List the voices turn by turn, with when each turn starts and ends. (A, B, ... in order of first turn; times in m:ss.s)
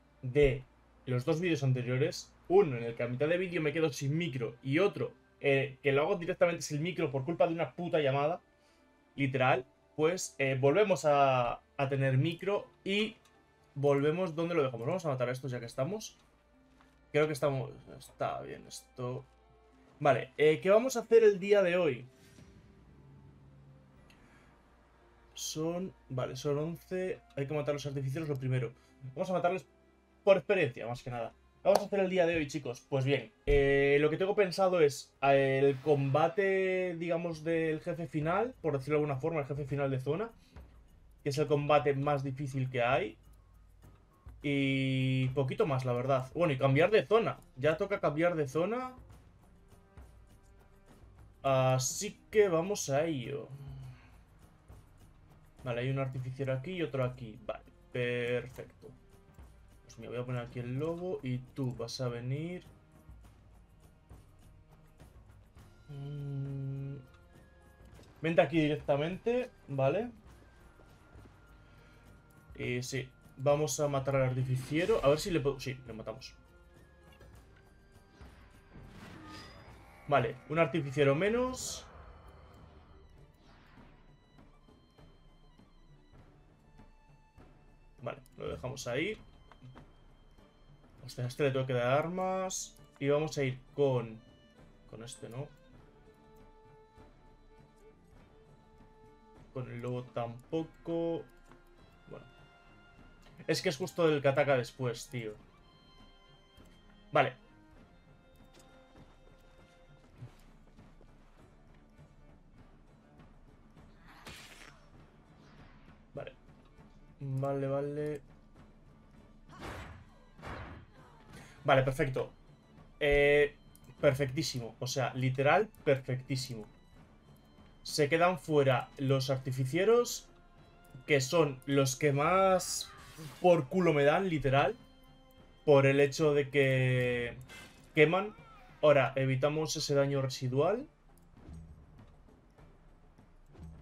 0:00.2-0:08.4 A
0:09.2-0:13.2 A
0:13.8-0:16.2 A
0:17.1-0:19.3 A
0:20.0-0:22.1 A
0:25.3-0:29.7 A
0:30.2-0:40.4 A
0:41.2-0:43.2 A
0:44.4-0:49.0 A
0:51.4-0:53.8 A
0:55.6-0:59.0 A
0:59.8-1:02.7 A
1:05.9-1:07.0 A
1:08.2-1:10.1 A
1:12.5-1:16.4 A
1:20.1-1:21.9 A
1:28.0-1:29.2 A
1:31.0-1:34.3 A
1:34.9-1:35.5 A
1:39.5-1:41.3 A
1:43.5-1:45.4 A
1:47.1-1:47.4 A
1:57.2-1:58.2 A
2:01.6-2:02.4 A
2:03.0-2:06.7 A
2:07.8-2:10.3 A
2:11.1-2:14.8 A
2:15.7-2:17.4 A
2:17.9-2:20.9 A